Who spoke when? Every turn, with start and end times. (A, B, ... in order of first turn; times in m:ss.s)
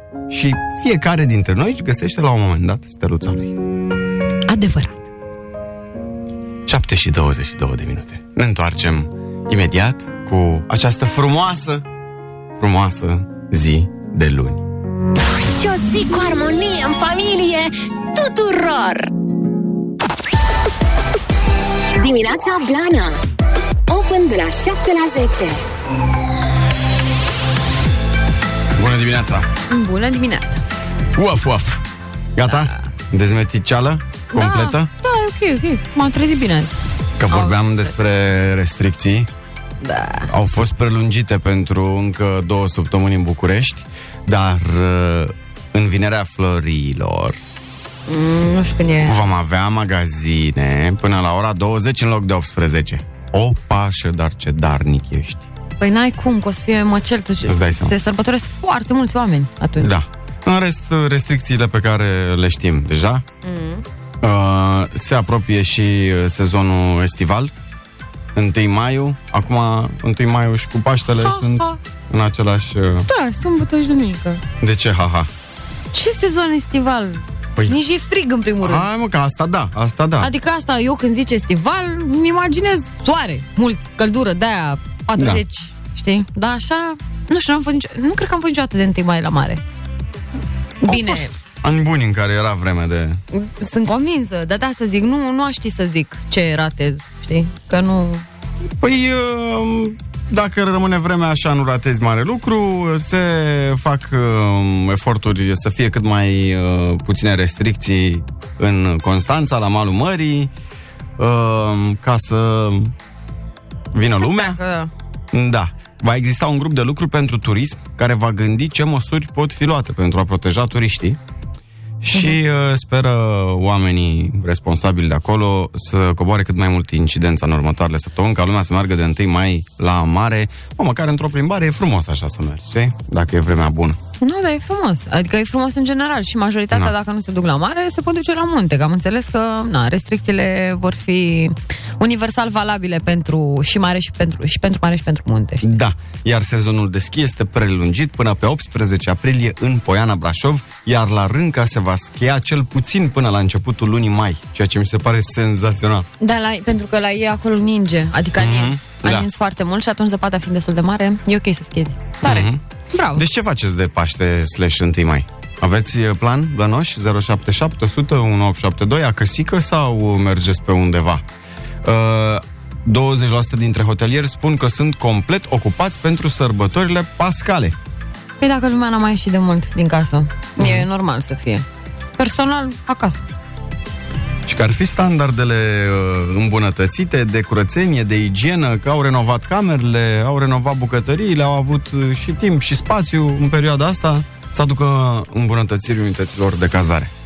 0:00.3-0:03.6 A
0:04.5-0:05.0 B
0:06.7-0:11.8 A
0:12.6-0:14.6 A
0:15.5-0:19.1 C
0:22.0-0:23.2 C
0:23.9-0:25.6 C
0:28.8-0:29.5 A
0:29.7-0:30.6 B
0:31.1-0:34.9 A
0:32.4-0:32.8 B
0:34.3-0:36.7 B
0:37.2-0:39.3 A
0:37.3-0:37.6 B
0:39.8-0:40.3 B
0:40.3-0:47.4 A
0:48.1-0:49.2 B
0:49.0-0:55.4 A
0:55.8-0:59.9 B
0:57.4-0:57.9 A
0:59.8-1:03.2 A
1:03.4-1:03.8 B
1:04.2-1:07.5 A
1:08.3-1:13.1 A
1:11.2-1:11.8 B
1:13.1-1:14.4 B
1:14.6-1:15.3 A
1:15.9-1:18.9 B
1:18.6-1:20.3 A
1:20.2-1:29.6 B
1:25.2-1:25.4 A
1:30.8-1:31.3 B
1:30.8-1:33.2 A
1:33.3-1:38.2 B
1:38.8-1:50.5 A
1:51.2-1:52.9 A
1:53.9-1:54.6 A
1:54.2-1:54.9 B
1:55.3-2:01.2 A
2:02.0-2:14.0 A
2:14.2-2:25.7 B
2:25.6-2:36.1 A
2:36.2-2:43.2 B
2:38.4-2:39.3 A
2:42.2-2:42.6 A
2:43.1-2:51.2 A
2:51.8-2:57.8 A
2:58.4-3:01.6 B
3:00.6-3:00.8 A
3:02.2-3:03.2 B
3:04.4-3:17.1 A